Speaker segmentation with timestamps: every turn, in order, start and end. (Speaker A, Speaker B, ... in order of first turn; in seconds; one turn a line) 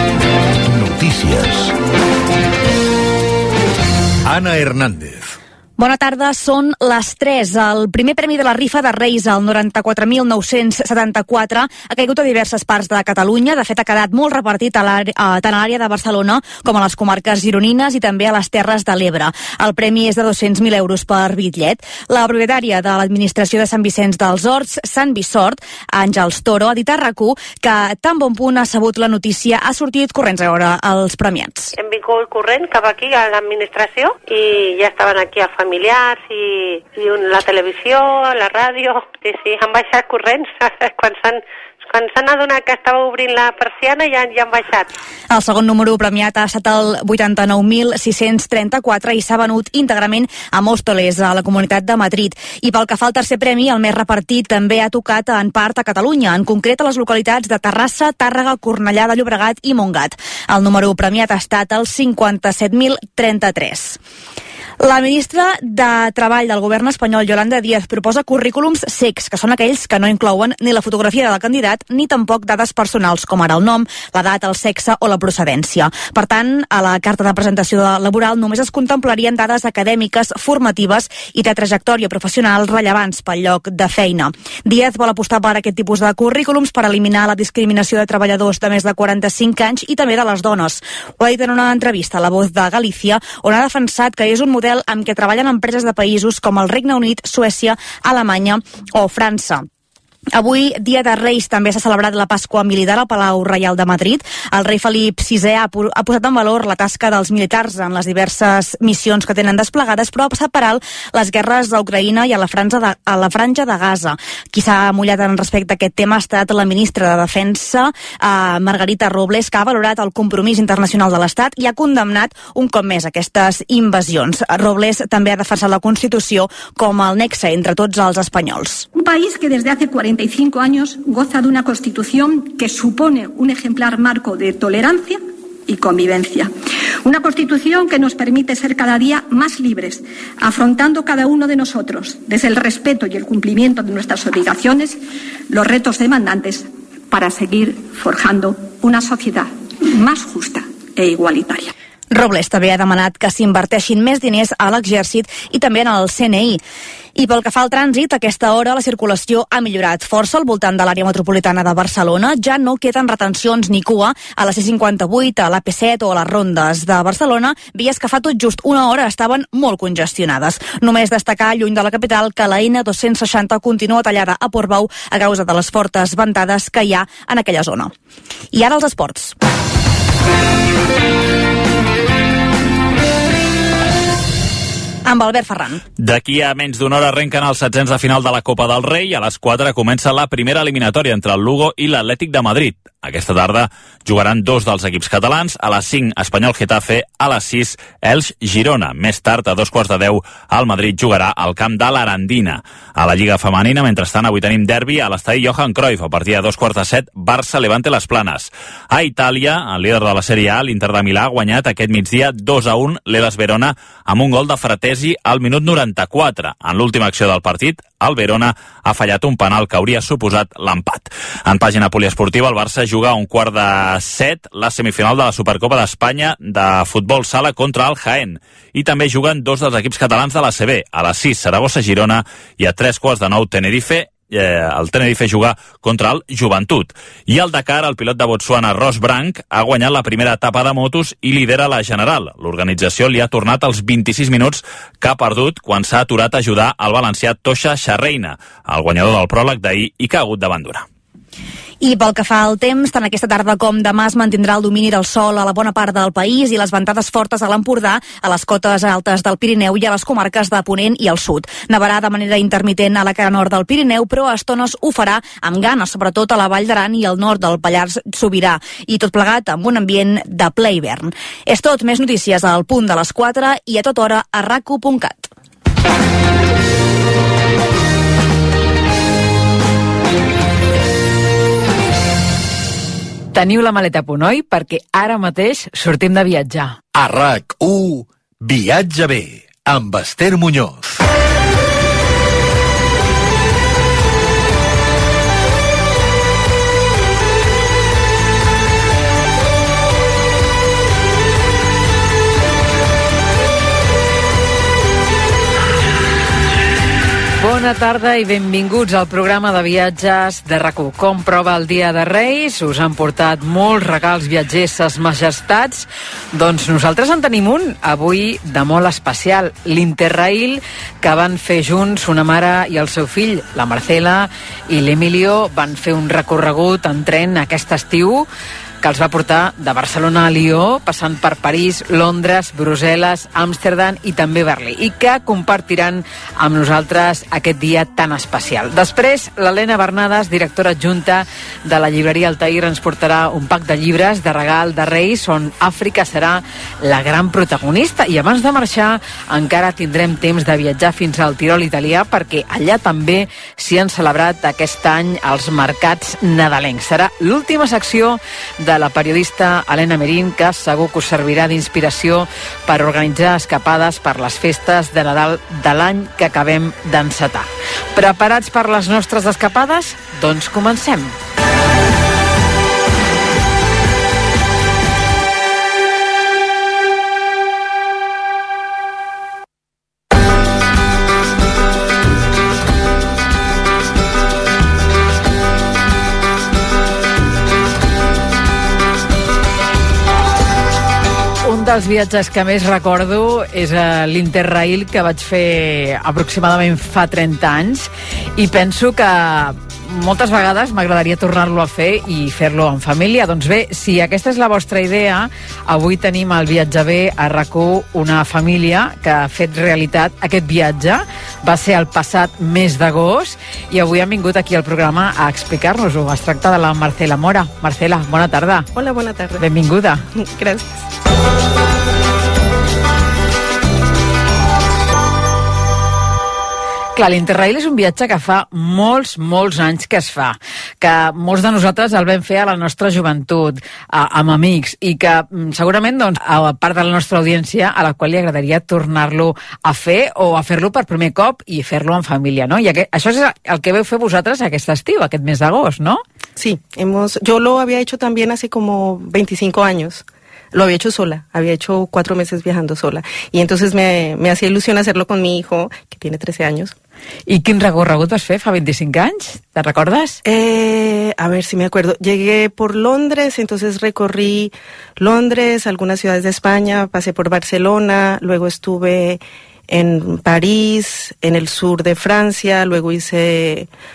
Speaker A: 0.6-1.7
Speaker A: 4.2-5.3
Speaker B: 5.8-31.7
Speaker C: 31.7-44.9
Speaker B: 45.3-64.0
Speaker B: 64.8-99.7
Speaker B: 100.3-128.9
Speaker D: 128.9-136.5
Speaker D: 137.0-151.7
Speaker B: 152.1-156.6
Speaker B: 157.2-177.9
Speaker B: 178.5-179.3
Speaker B: 185.0-185.8
Speaker E: 186.0-250.8
Speaker B: 251.8-275.3
Speaker F: 283.3-286.8
Speaker A: 286.9-290.9
Speaker F: 307.4-328.3
Speaker F: 328.8-371.1
Speaker F: 391.4-418.7
Speaker G: 418.7-419.4
Speaker F: 419.4-420.0
Speaker G: 420.1-420.8
Speaker F: 426.9-446.0
Speaker G: 446.4-456.7
Speaker F: 457.3-460.2
Speaker G: 460.2-473.7